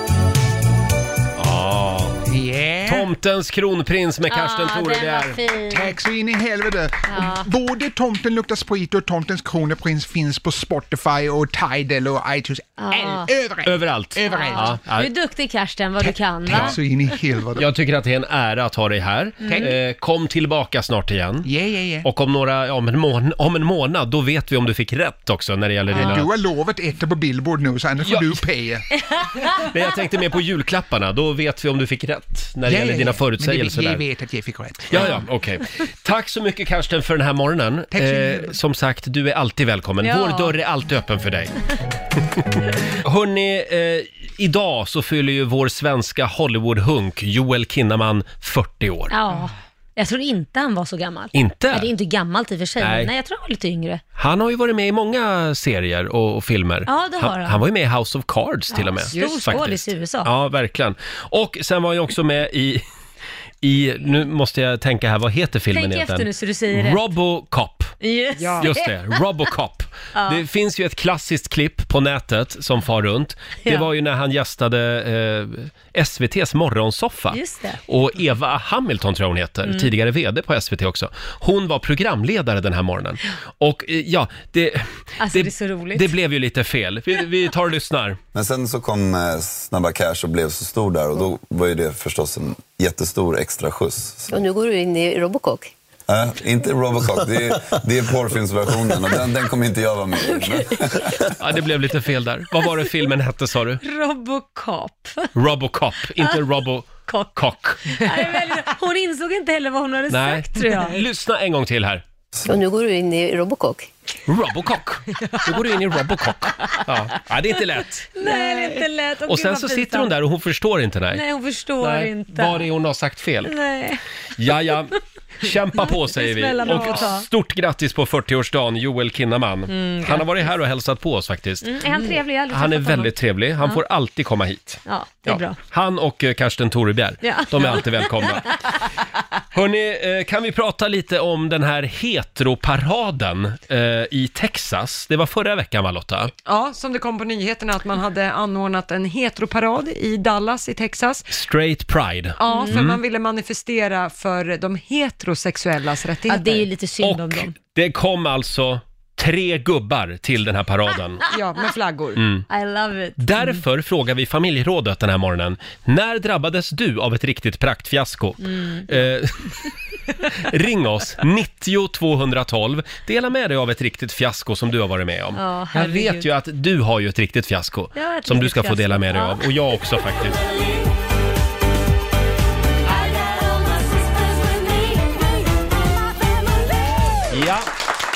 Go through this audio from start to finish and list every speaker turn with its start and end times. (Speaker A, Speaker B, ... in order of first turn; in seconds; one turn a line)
Speaker A: 1.4-2.2
Speaker B: 2.2-3.1
Speaker A: 2.9-5.4
Speaker C: 4.3-5.9
Speaker B: 5.7-14.8
Speaker C: 7.1-7.5
Speaker C: 12.8-13.3
Speaker A: 13.6-15.1
Speaker C: 14.3-16.8
Speaker B: 16.0-17.7
Speaker A: 16.5-16.8
Speaker A: 17.6-21.5
Speaker C: 19.4-19.7
Speaker B: 19.4-19.7
Speaker B: 21.4-22.1
Speaker A: 22.0-26.3
Speaker C: 25.9-26.2
Speaker B: 25.9-28.9
Speaker A: 28.0-28.4
Speaker A: 29.6-34.0
Speaker B: 32.6-35.2
Speaker A: 34.9-41.5
Speaker C: 35.0-35.2
Speaker B: 37.9-38.5
Speaker C: 40.0-40.5
Speaker A: 42.6-49.1
Speaker C: 49.1-54.0
Speaker A: 51.3-51.9
Speaker A: 52.8-53.1
Speaker A: 54.2-62.8
Speaker C: 56.9-57.6
Speaker C: 58.7-60.3
Speaker D: 59.1-59.5
Speaker A: 63.6-68.0
Speaker C: 65.7-67.0
Speaker C: 68.0-69.2
Speaker D: 68.4-68.7
Speaker A: 68.6-88.2
Speaker C: 70.1-70.4
Speaker C: 77.3-77.8
Speaker C: 85.2-86.1
Speaker E: 88.3-94.3
Speaker F: 94.3-95.7
Speaker E: 96.1-101.2
Speaker C: 100.2-101.2
Speaker A: 101.4-103.8
Speaker C: 103.8-105.3
Speaker A: 105.3-108.1
Speaker C: 107.1-111.0
Speaker A: 110.1-112.0
Speaker F: 112.5-113.9
Speaker A: 114.3-118.2
Speaker C: 118.2-120.1
Speaker D: 118.3-118.8
Speaker A: 119.3-121.2
Speaker C: 121.1-122.7
Speaker A: 121.8-123.5
Speaker C: 123.5-124.0
Speaker A: 124.4-138.5
Speaker C: 125.8-127.3
Speaker C: 129.7-130.5
Speaker C: 131.6-133.8
Speaker C: 134.8-135.6
Speaker C: 137.2-138.6
Speaker A: 139.5-146.3
Speaker D: 146.4-151.3
Speaker A: 151.3-153.0
Speaker D: 152.4-156.7
Speaker C: 152.5-152.8
Speaker C: 156.3-157.5
Speaker A: 157.0-161.2
Speaker D: 161.3-162.2
Speaker A: 162.2-162.5
Speaker C: 162.5-163.6
Speaker A: 163.2-169.6
Speaker C: 168.4-168.9
Speaker A: 170.3-180.4
Speaker C: 175.3-176.2
Speaker C: 177.9-179.4
Speaker C: 182.9-185.2
Speaker A: 187.3-187.7